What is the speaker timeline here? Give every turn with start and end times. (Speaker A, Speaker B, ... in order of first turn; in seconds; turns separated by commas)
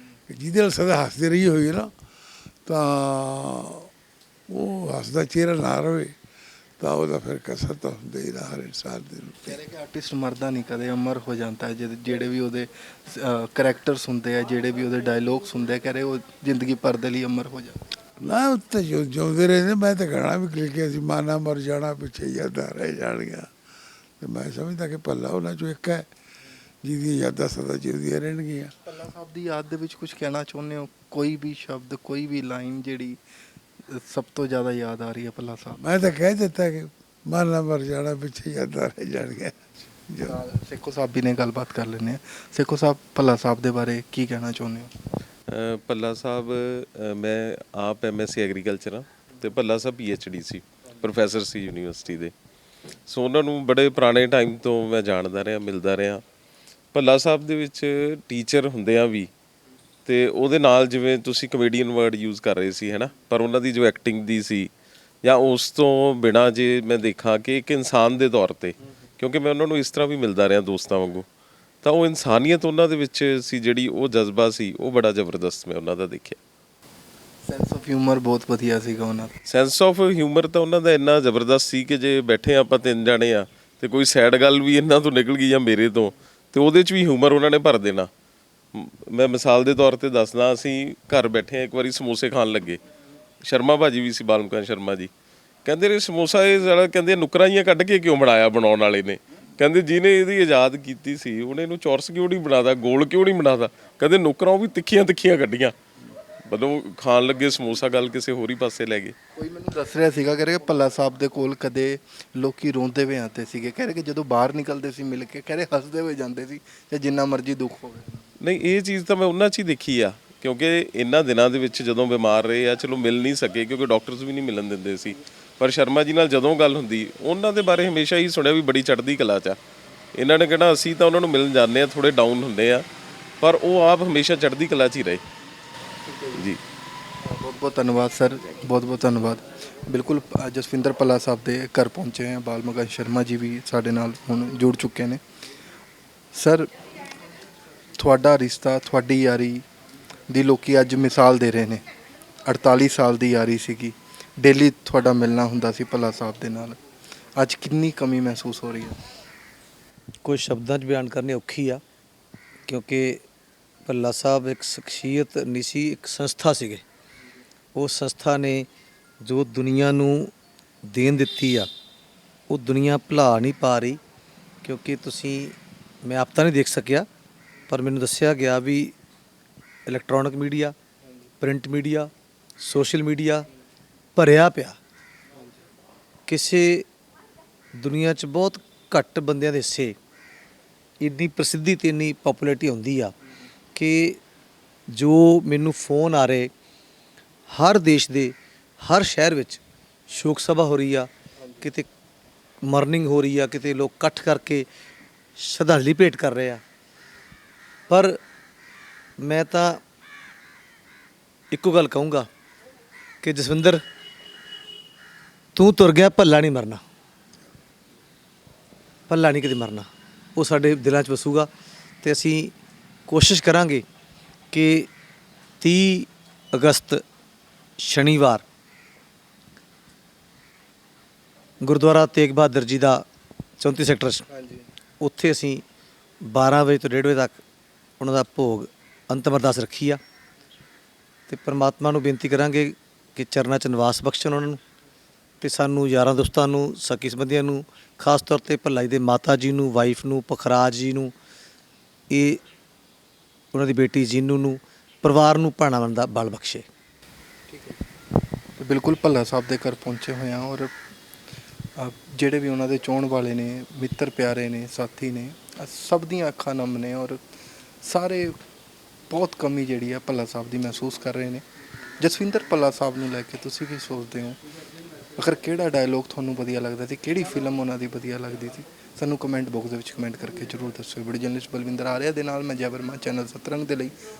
Speaker A: 0.3-1.9, Speaker A: 2.6-3.9, Speaker A: 4.5-6.1, Speaker A: 6.8-9.6, Speaker B: 9.4-17.8, Speaker A: 18.2-23.5, Speaker A: 24.2-26.1, Speaker A: 26.8-28.7, Speaker B: 28.9-33.2, Speaker B: 33.9-35.8, Speaker A: 35.8-40.4, Speaker B: 40.2-44.9, Speaker C: 45.5-52.3, Speaker C: 53.1-56.2, Speaker C: 56.9-59.3, Speaker C: 60.0-64.7, Speaker C: 65.2-71.2, Speaker C: 71.8-76.4, Speaker B: 77.5-79.3, Speaker C: 79.5-88.1, Speaker C: 88.7-92.8, Speaker C: 93.4-95.1, Speaker C: 95.6-105.8, Speaker C: 106.5-109.1, Speaker B: 109.3-118.3, Speaker C: 118.4-129.6, Speaker C: 130.1-132.9, Speaker C: 133.4-135.2, Speaker B: 136.1-136.4, Speaker C: 136.3-136.6, Speaker B: 137.2-145.2, Speaker B: 146.3-146.7, Speaker B: 148.0-149.6, Speaker B: 150.3-151.8, Speaker B: 152.4-156.8, Speaker B: 157.3-159.0, Speaker D: 160.2-161.8, Speaker D: 162.7-163.2, Speaker D: 163.8-166.8, Speaker D: 167.7-168.7, Speaker D: 169.2-170.3, Speaker D: 170.9-171.7, Speaker D: 172.5-174.0, Speaker D: 174.6-177.1, Speaker D: 177.7-178.9, Speaker D: 179.9-180.8, Speaker D: 181.4-183.5, Speaker D: 184.1-184.8, Speaker D: 186.3-186.9, Speaker D: 187.8-190.0, Speaker D: 191.0-193.1, Speaker D: 193.7-194.2, Speaker D: 194.9-196.5, Speaker D: 197.5-201.1, Speaker D: 201.6-201.9, Speaker D: 202.6-204.7, Speaker D: 205.4-206.6, Speaker D: 207.9-208.2, Speaker D: 209.2-209.8, Speaker D: 211.5-212.3, Speaker D: 213.2-213.8, Speaker D: 215.5-216.8, Speaker D: 219.1-221.5, Speaker D: 222.0-222.5, Speaker D: 223.1-223.8, Speaker D: 224.5-224.9, Speaker D: 225.6-227.0, Speaker D: 227.8-228.4, Speaker D: 231.6-233.1, Speaker D: 233.6-234.2, Speaker B: 234.3-234.7, Speaker D: 235.0-235.6, Speaker D: 236.2-237.4, Speaker D: 238.0-240.0, Speaker D: 241.3-244.6, Speaker D: 245.4-251.1, Speaker D: 252.1-252.4, Speaker D: 253.5-256.7, Speaker B: 257.5-257.8, Speaker B: 258.6-260.7, Speaker B: 261.8-267.2, Speaker B: 267.8-268.3, Speaker B: 269.1-271.4, Speaker B: 272.0-274.4, Speaker B: 275.2-283.9